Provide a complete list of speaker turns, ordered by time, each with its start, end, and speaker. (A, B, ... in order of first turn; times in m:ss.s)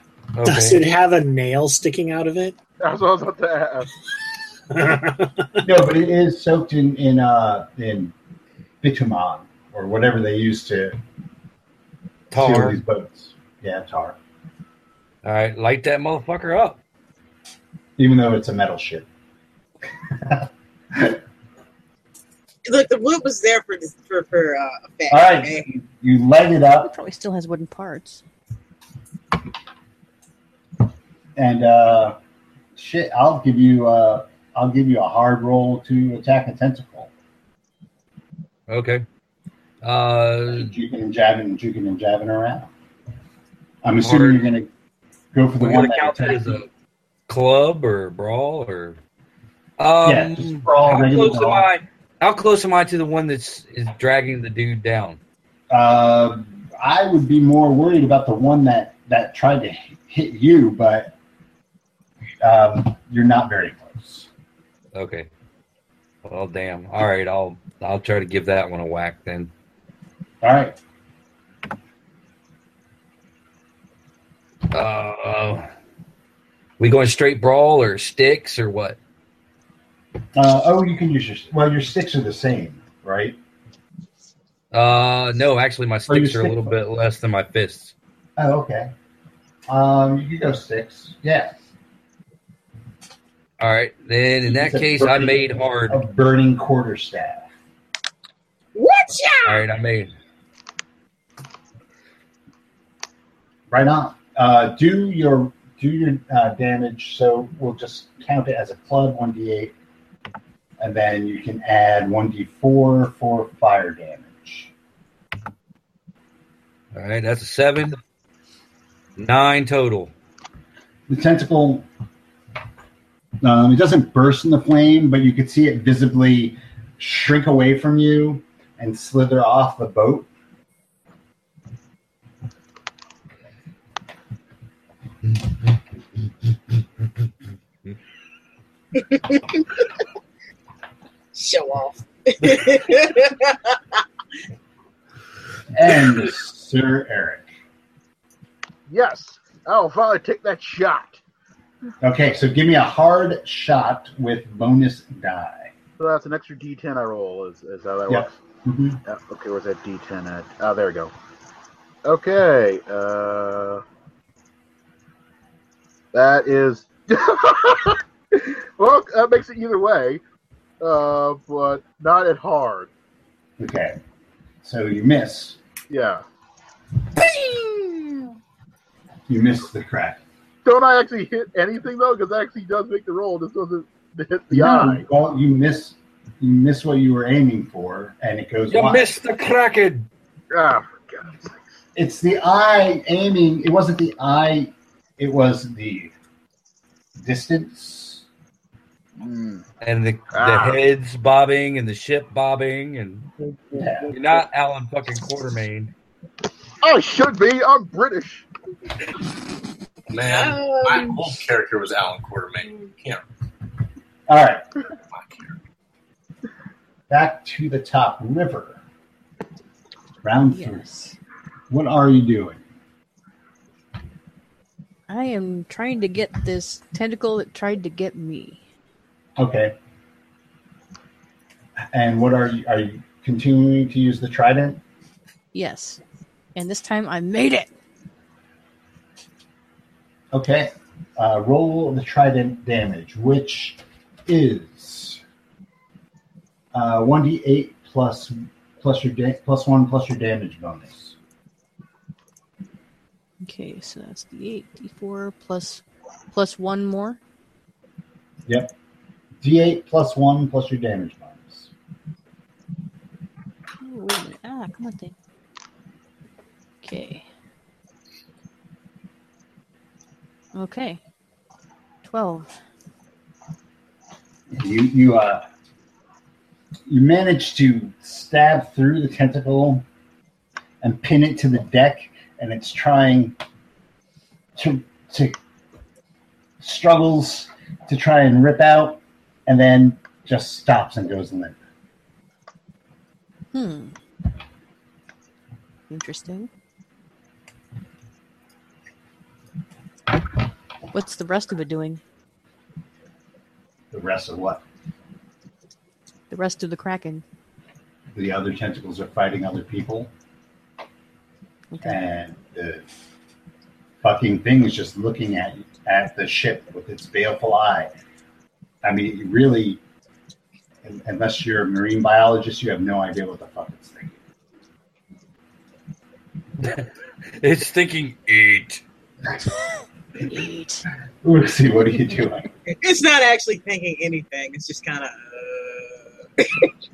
0:00.3-0:00.8 A
0:00.4-0:02.6 B
0:02.8-0:03.9 C
0:04.7-0:05.5 B
0:05.6-0:08.1 D
0:08.8-0:11.0 D
0:12.3-0:12.8 A
0:12.3-0:14.2 D
0:15.2-0:16.8 A
0:18.0-0:19.1 D
0:20.2-0:21.2 D
0:22.6-0:25.6 E
0:25.1-0:26.9 D
0:26.8-0:28.2 F
0:31.4-0:32.2 D
0:32.8-0:37.1 D
0:38.7-0:39.0 A
0:39.8-0:40.7 A
0:40.5-0:42.7 D
0:43.8-0:44.7 D
0:44.0-0:44.4 A
0:45.3-0:46.6 D
0:45.6-0:46.7 A
0:47.3-0:49.0 A
0:49.8-0:55.2 A
0:50.0-0:51.6 D
0:55.7-1:01.1 D
1:02.4-1:04.3 D
1:04.9-1:05.3 A
1:06.2-1:09.5 A
1:10.4-1:10.8 D
1:14.7-1:15.7 A
1:16.8-1:19.0 A
1:20.4-1:23.4 D
1:24.7-1:27.9 A
1:26.1-1:26.7 D
1:28.4-1:28.9 D
1:29.7-1:31.6 D
1:33.6-1:36.0 A
1:34.4-1:37.5 D
1:38.7-1:39.7 E
1:39.4-1:40.1 A
1:43.7-1:49.7 D
1:50.8-1:54.7 D
1:56.9-1:58.0 A
1:59.2-2:00.1 A
2:01.1-2:01.9 D
2:03.4-2:10.3 D
2:18.9-2:19.8 E
2:21.3-2:24.0 E
2:25.7-2:27.5 D
2:28.9-2:31.2 C
2:32.0-2:35.7 D
2:36.0-2:38.3 C
2:38.1-2:39.0 D
2:39.0-2:41.1 C
2:42.0-2:43.8 C
2:46.1-2:50.2 C
2:50.8-2:52.9 C
2:53.6-2:54.0 D
2:54.6-2:55.6 D
2:55.9-2:56.2 C
2:57.2-2:58.2 C
2:59.3-3:00.2 D
3:00.6-3:05.0 C
3:04.5-3:09.1 D
3:08.7-3:10.1 A
3:10.5-3:11.7 C
3:11.9-3:16.1 D
3:17.2-3:18.2 D
3:19.2-3:19.6 C
3:19.8-3:23.3 A
3:20.3-3:20.8 C
3:23.7-3:24.4 C
3:23.7-3:24.1 D
3:24.1-3:25.9 A
3:26.8-3:28.4 C
3:30.1-3:33.2 G
3:30.3-3:31.2 E
3:34.3-3:34.6 D
3:35.1-3:35.5 G
3:37.1-3:38.8 D
3:40.2-3:40.9 D
3:40.5-3:41.1 F
3:41.7-3:42.6 D
3:45.1-3:48.6 F
3:49.4-3:49.7 D
3:51.9-3:54.8 D
3:55.5-3:56.0 F
3:56.5-3:57.7 F
4:00.3-4:05.2 D
4:06.7-4:11.1 D
4:13.4-4:17.2 F
4:18.4-4:18.7 D
4:19.4-4:21.7 D
4:23.8-4:25.1 F
4:26.8-4:27.3 F
4:30.5-4:31.0 F
4:32.0-4:32.5 F
4:34.5-4:35.4 D
4:36.9-4:39.8 D
4:40.8-4:43.4 D
4:44.6-4:45.4 D
4:46.6-4:51.6 D
4:53.5-4:54.0 F
4:55.9-4:56.5 F
5:00.9-5:02.0 F
5:03.9-5:04.6 D
5:06.3-5:07.2 F
5:08.1-5:10.1 D
5:11.7-5:12.0 F
5:11.8-5:12.8 D
5:14.0-5:17.9 D
5:18.8-5:19.8 D
5:20.8-5:24.2 D
5:26.6-5:28.8 A
5:30.2-5:30.8 F
5:31.2-5:32.5 D
5:32.7-5:36.7 E